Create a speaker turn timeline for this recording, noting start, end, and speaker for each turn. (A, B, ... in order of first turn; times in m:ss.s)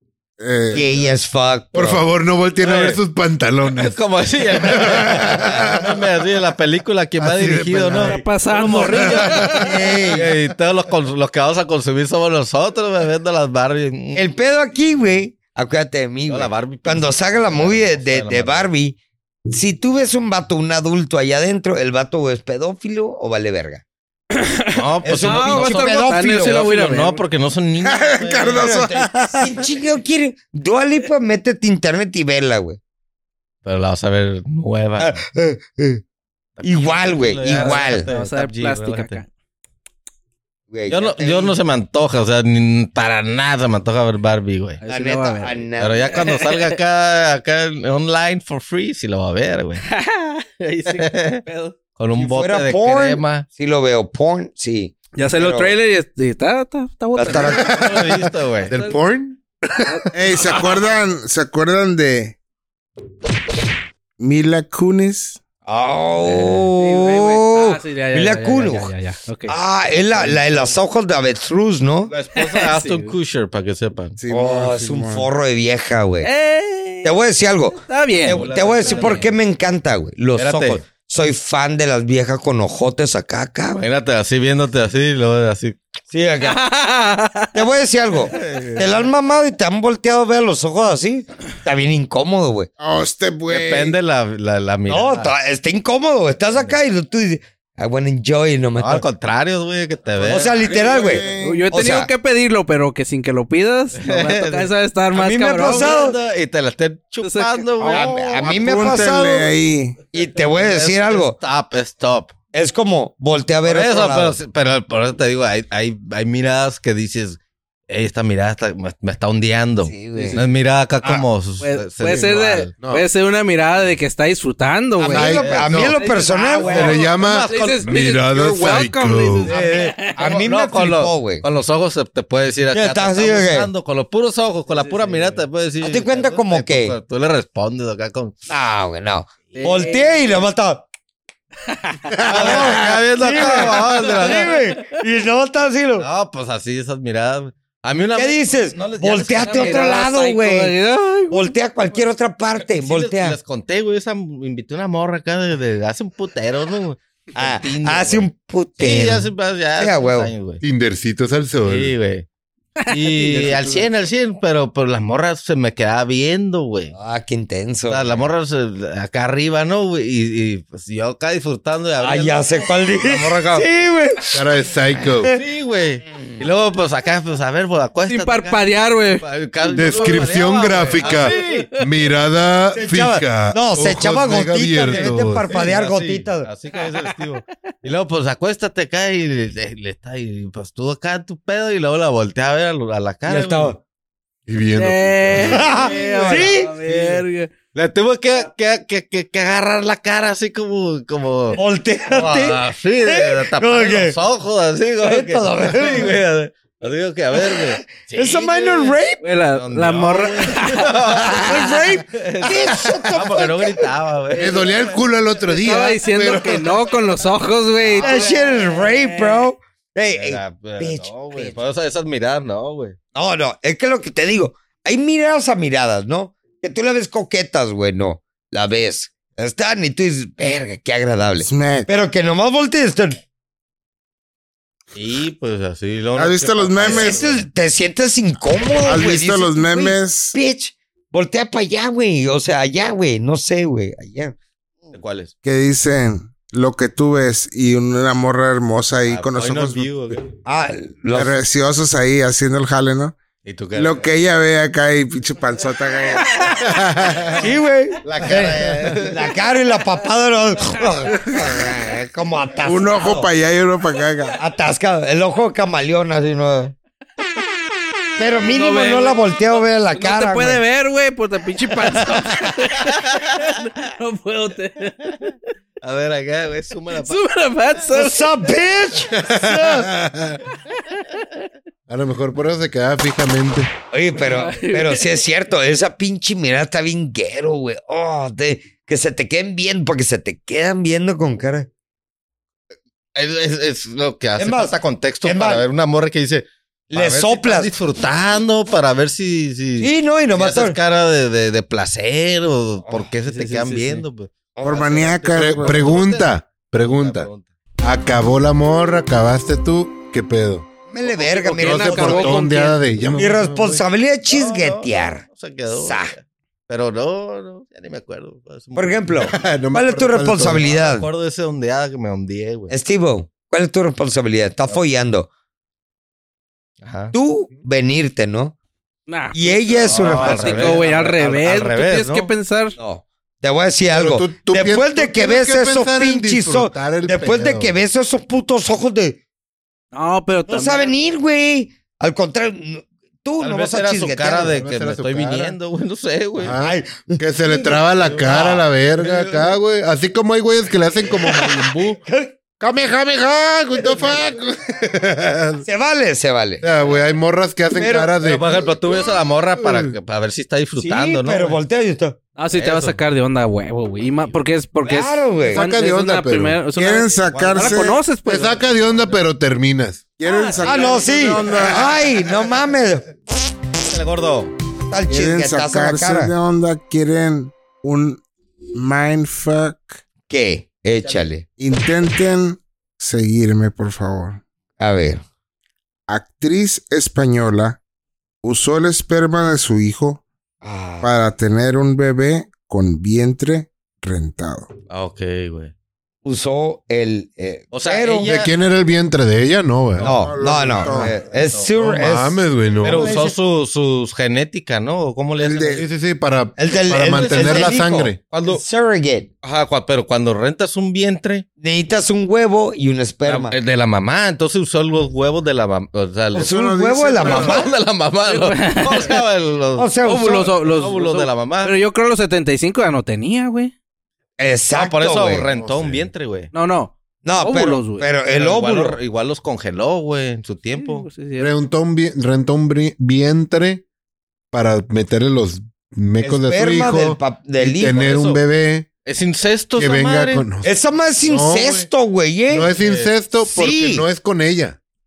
0:00.4-0:01.1 A
0:00.7-0:02.0 B
0:01.7-0:04.0 C
0:02.6-0:03.0 D
0:03.7-0:14.2 D
0:04.5-0:06.0 C
0:07.2-0:09.6 C
0:07.9-0:09.7 E
0:09.5-0:10.3 B
0:14.1-0:19.0 B
0:16.3-0:18.7 D
0:19.5-0:23.8 B
0:24.3-0:27.2 E
0:24.7-0:28.8 D
0:25.0-0:26.7 B
0:27.8-0:29.6 A
0:28.5-0:32.8 B
0:33.6-0:35.2 D
0:35.0-0:36.0 B
0:36.6-0:39.2 D
0:36.6-0:38.1 B
0:37.5-0:39.3 E
0:40.7-0:41.5 B
0:40.9-0:44.8 D
0:44.8-0:46.7 E
0:44.9-0:46.2 B
0:45.8-0:49.8 D
0:49.8-0:51.7 E
0:50.8-0:51.4 D
0:52.0-0:53.4 D
0:52.2-0:55.7 B
0:55.2-0:57.9 E
0:57.1-0:58.0 B
0:57.3-1:00.5 C
0:57.6-0:58.7 D
0:58.7-0:59.0 E
1:00.1-1:02.4 A
1:04.2-1:05.4 A
1:05.6-1:08.9 B
1:06.2-1:06.7 D
1:06.8-1:09.6 E
1:09.5-1:12.1 B
1:10.1-1:10.7 D
1:12.1-1:14.2 D
1:12.3-1:13.1 E
1:14.2-1:15.3 A
1:14.3-1:16.3 B
1:16.2-1:17.2 E
1:17.0-1:23.8 B
1:17.7-1:19.2 E
1:18.3-1:19.3 D
1:20.3-1:20.8 D
1:23.8-1:25.8 D
1:26.1-1:26.6 B
1:26.4-1:27.6 E
1:27.5-1:32.7 B
1:28.3-1:29.0 D
1:32.8-1:34.0 A
1:33.5-1:35.3 D
1:34.9-1:39.0 B
1:38.8-1:41.2 D
1:40.2-1:42.1 B
1:40.5-1:41.7 A
1:41.4-1:46.0 E
1:44.0-1:44.7 D
1:45.1-1:46.2 B
1:45.6-1:48.5 D
1:47.2-1:48.4 E
1:47.8-1:49.5 B
1:48.4-1:50.0 A
1:50.1-1:51.4 B
1:50.4-1:52.3 D
1:52.5-1:54.4 B
1:53.6-2:02.7 D
1:59.8-2:00.4 B
2:00.1-2:00.5 E
2:01.6-2:10.2 E
2:05.0-2:07.0 B
2:05.1-2:05.9 C
2:05.4-2:05.9 D
2:06.6-2:09.5 C
2:06.7-2:08.0 D
2:09.5-2:11.4 B
2:10.0-2:18.3 D
2:12.7-2:13.7 B
2:14.7-2:15.4 E
2:15.8-2:16.9 B
2:18.5-2:20.9 B
2:19.5-2:20.3 E
2:21.6-2:22.3 E
2:22.2-2:26.1 B
2:22.3-2:24.6 D
2:23.7-2:24.9 E
2:26.0-2:30.0 D
2:28.1-2:30.7 B
2:29.4-2:31.5 E
2:31.3-2:33.4 B
2:32.7-2:38.3 D
2:37.4-2:40.3 B
2:38.8-2:40.6 D
2:40.6-2:41.9 C
2:41.6-2:42.2 D
2:42.8-2:46.9 D
2:46.9-2:48.3 B
2:47.9-2:53.7 D
2:52.0-2:54.4 B
2:54.3-2:55.3 C
2:55.0-2:55.4 B
2:55.3-2:58.6 D
2:58.1-2:59.2 E
2:59.2-3:01.7 D
2:59.7-3:05.5 C
3:01.0-3:01.8 E
3:02.7-3:06.5 B
3:04.9-3:13.8 D
3:13.3-3:13.8 B
3:14.5-3:15.7 C
3:14.8-3:17.5 E
3:15.4-3:16.7 B
3:15.7-3:17.2 D
3:17.7-3:21.6 D
3:21.5-3:24.2 B
3:22.1-3:29.0 D
3:25.0-3:26.1 B
3:27.4-3:29.2 B
3:29.2-3:31.3 E
3:29.5-3:34.9 D
3:31.2-3:33.9 B
3:34.3-3:36.8 C
3:35.5-3:39.5 E
3:37.8-3:38.4 D
3:38.0-3:41.6 B
3:40.1-3:43.0 D
3:43.1-3:53.2 B
3:51.4-3:51.9 A
3:54.9-3:57.4 D
3:56.1-3:57.2 A
3:56.8-4:04.3 B
3:58.8-4:00.4 A
4:04.9-4:05.3 D
4:05.4-4:09.9 A
4:09.1-4:10.3 D
4:10.4-4:11.4 B
4:11.1-4:13.2 A
4:13.4-4:14.1 D
4:13.7-4:16.5 A
4:16.6-4:17.4 C
4:17.3-4:23.3 B
4:18.0-4:19.3 D
4:18.2-4:19.0 C
4:22.6-4:24.4 A
4:24.4-4:26.7 B
4:28.2-4:30.6 B
4:28.5-4:35.3 E
4:32.8-4:33.5 D
4:35.8-4:37.2 D
4:37.0-4:38.3 E
4:37.9-4:39.9 B
4:39.1-4:40.4 C
4:40.7-4:41.2 E
4:41.9-4:43.7 C
4:43.9-4:51.7 B
4:44.2-4:45.2 E
4:53.1-5:07.4 D
4:54.4-4:55.6 B
4:56.9-4:57.7 B
4:59.8-5:00.8 B
5:03.2-5:04.0 E
5:04.6-5:05.2 B
5:04.6-5:05.8 A
5:05.3-5:07.3 C
5:07.8-5:10.6 C
5:10.9-5:12.4 B
5:11.0-5:11.5 D
5:11.4-5:12.8 E
5:11.6-5:13.8 C
5:13.1-5:16.1 B
5:14.3-5:19.3 D
5:18.8-5:21.1 B
5:19.2-5:20.7 C
5:20.5-5:22.7 D
5:22.7-5:25.3 B
5:26.8-5:27.1 D
5:27.1-5:28.5 B
5:29.1-5:32.8 E
5:29.3-5:30.8 B
5:29.8-5:32.3 D
5:32.8-5:39.2 B
5:33.9-5:37.7 C
5:39.9-5:40.9 E
5:40.5-5:44.6 B
5:43.4-5:46.6 D
5:44.4-5:45.6 C
5:46.4-5:52.0 C
5:46.6-5:48.5 B
5:48.1-5:49.5 D
5:51.1-5:52.3 B
5:52.6-5:55.6 C
5:55.6-5:56.6 B
5:56.6-5:58.4 C
5:57.7-5:58.6 B
5:58.2-6:01.6 D
5:59.6-5:59.9 C
6:00.8-6:02.2 B
6:02.4-6:08.6 E
6:02.6-6:03.0 D
6:04.8-6:05.6 B
6:05.4-6:06.6 C
6:06.7-6:08.0 A
6:07.2-6:07.8 D
6:08.2-6:10.0 C
6:10.2-6:11.9 A
6:10.2-6:10.6 E
6:10.5-6:12.0 D
6:10.6-6:13.1 B
6:13.8-6:14.5 D
6:14.9-6:16.3 B
6:15.1-6:20.0 A
6:20.3-6:21.4 B
6:21.6-6:24.4 A
6:24.8-6:25.2 B
6:26.1-6:27.8 A
6:28.4-6:30.2 A
6:30.6-6:31.1 B
6:31.0-6:34.7 A
6:34.9-6:35.7 D
6:36.2-6:38.4 B
6:37.7-6:38.5 D
6:38.2-6:40.1 C
6:40.0-6:41.1 A
6:40.0-6:43.4 B
6:40.8-6:41.1 C
6:41.2-6:42.1 D
6:41.8-6:43.1 C
6:42.8-6:45.8 D
6:45.4-6:45.8 A
6:45.7-6:48.2 C
6:46.6-6:49.3 B
6:47.2-6:47.8 D
6:48.3-6:48.6 D
6:49.4-6:51.4 D
6:51.6-6:53.6 B
6:53.2-6:56.5 D
6:56.3-6:57.7 A
6:56.3-6:57.7 B
6:57.2-7:01.7 D
6:58.3-6:59.2 E
6:59.8-7:00.5 B
7:00.0-7:03.7 E
7:04.4-7:05.5 B
7:04.7-7:06.5 D
7:05.5-7:06.1 C
7:06.5-7:08.1 E
7:07.2-7:09.0 B
7:08.3-7:11.1 D
7:10.7-7:11.5 E
7:11.4-7:13.8 C
7:14.5-7:18.9 C
7:16.2-7:18.2 B
7:17.9-7:18.4 D
7:19.0-7:20.5 D
7:19.8-7:20.7 C
7:20.6-7:22.7 B
7:21.2-7:21.9 C
7:22.5-7:24.8 C
7:22.8-7:23.1 D
7:23.4-7:24.1 B